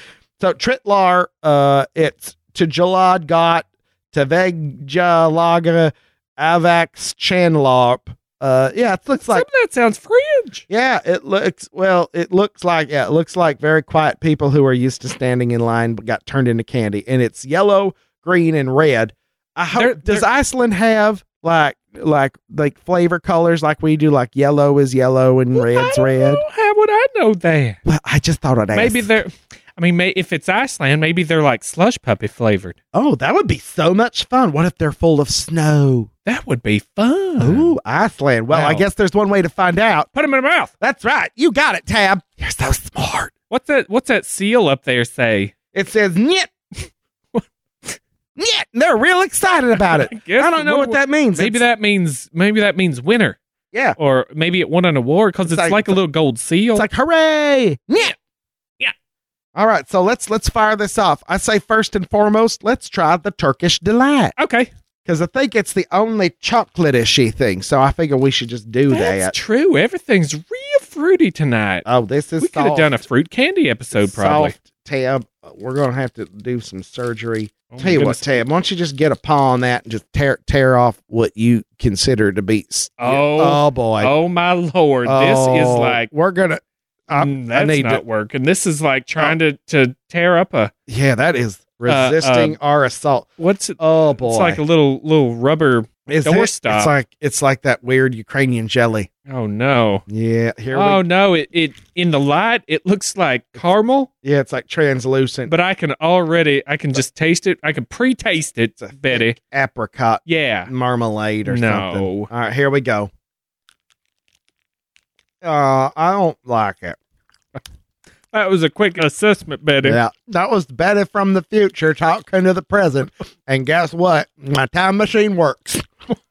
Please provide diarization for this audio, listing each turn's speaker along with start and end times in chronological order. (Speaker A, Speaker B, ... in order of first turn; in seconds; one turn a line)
Speaker A: 0.4-9.4
Speaker B: 9.2-10.6
Speaker A: 10.7-26.4
Speaker B: 19.7-20.2
Speaker B: 25.5-27.8
Speaker A: 27.8-29.1
Speaker B: 28.7-32.8
Speaker A: 32.9-36.1
Speaker B: 36.2-37.7
Speaker A: 37.4-40.1
Speaker B: 38.5-38.9
Speaker B: 40.1-40.7
Speaker A: 40.8-43.3
Speaker B: 43.5-45.5
Speaker A: 45.7-46.5
Speaker B: 47.3-48.0
Speaker A: 48.4-51.6
Speaker B: 49.7-53.4
Speaker A: 53.7-54.0
Speaker B: 54.0-56.9
Speaker A: 55.5-56.0
Speaker A: 56.7-58.1
Speaker A: 59.5-64.3
Speaker B: 64.4-64.7
Speaker A: 65.0-69.3
Speaker B: 68.9-71.8
Speaker A: 71.8-72.9
Speaker B: 72.4-74.5
Speaker A: 73.9-84.1
Speaker B: 77.7-78.4
Speaker B: 83.0-86.1
Speaker A: 85.0-88.0
Speaker B: 87.1-90.7
Speaker A: 90.9-94.6
Speaker B: 91.9-92.6
Speaker B: 93.4-96.9
Speaker A: 96.1-99.1
Speaker B: 99.3-100.0
Speaker A: 100.1-101.0
Speaker B: 100.7-104.1
Speaker A: 104.2-105.5
Speaker B: 105.5-109.3
Speaker A: 108.8-113.1
Speaker B: 110.2-110.7
Speaker B: 111.5-112.3
Speaker A: 115.4-117.0
Speaker B: 118.3-120.0
Speaker A: 119.8-125.9